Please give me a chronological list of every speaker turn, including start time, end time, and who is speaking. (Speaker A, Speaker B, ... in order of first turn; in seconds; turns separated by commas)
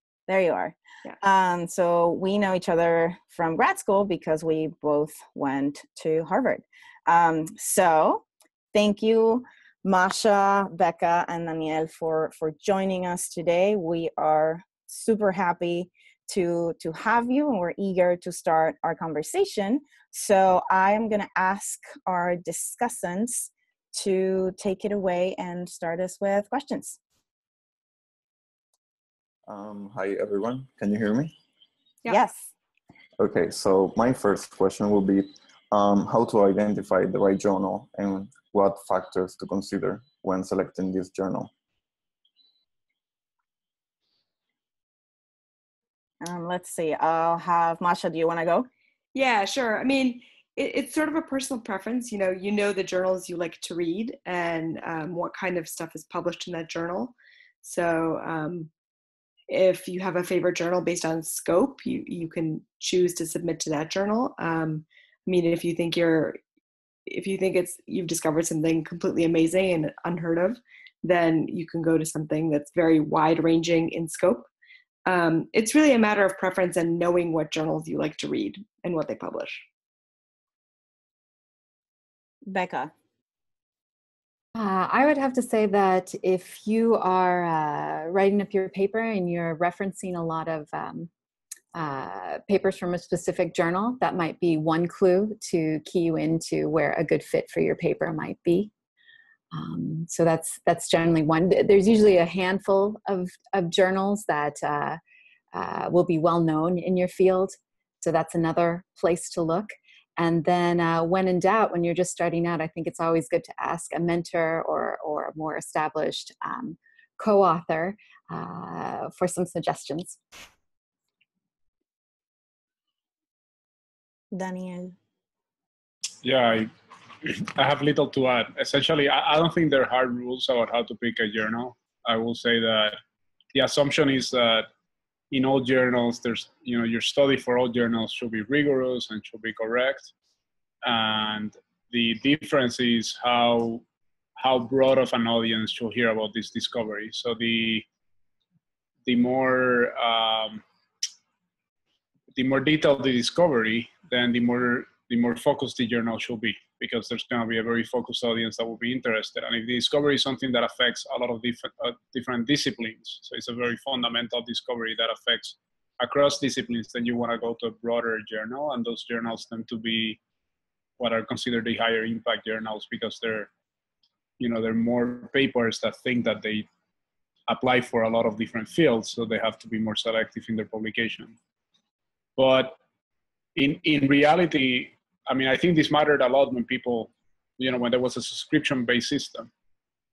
Speaker A: 0.3-27.0, Speaker B: 29.5-31.4, Speaker A: 32.1-32.5, Speaker B: 33.2-41.5, Speaker A: 46.2-48.7, Speaker C: 49.1-58.7, Speaker C: 59.5-66.4, Speaker C: 67.1-74.5, Speaker C: 75.1-79.6, Speaker A: 82.5-82.9, Speaker D: 84.5-91.1, Speaker D: 91.8-98.7, Speaker D: 99.5-105.0, Speaker D: 105.5-120.2, Speaker A: 124.3-125.0, Speaker E: 126.2-126.7, Speaker E: 127.2-133.0, Speaker E: 133.5-134.7, Speaker E: 135.3-140.1, Speaker E: 140.8-143.8, Speaker E: 144.4-147.9, Speaker E: 149.1-150.6, Speaker E: 152.3-170.2, Speaker E: 171.0-173.5, Speaker E: 174.4-176.7, Speaker E: 177.5-181.4, Speaker E: 182.4-182.8, Speaker E: 183.6-189.5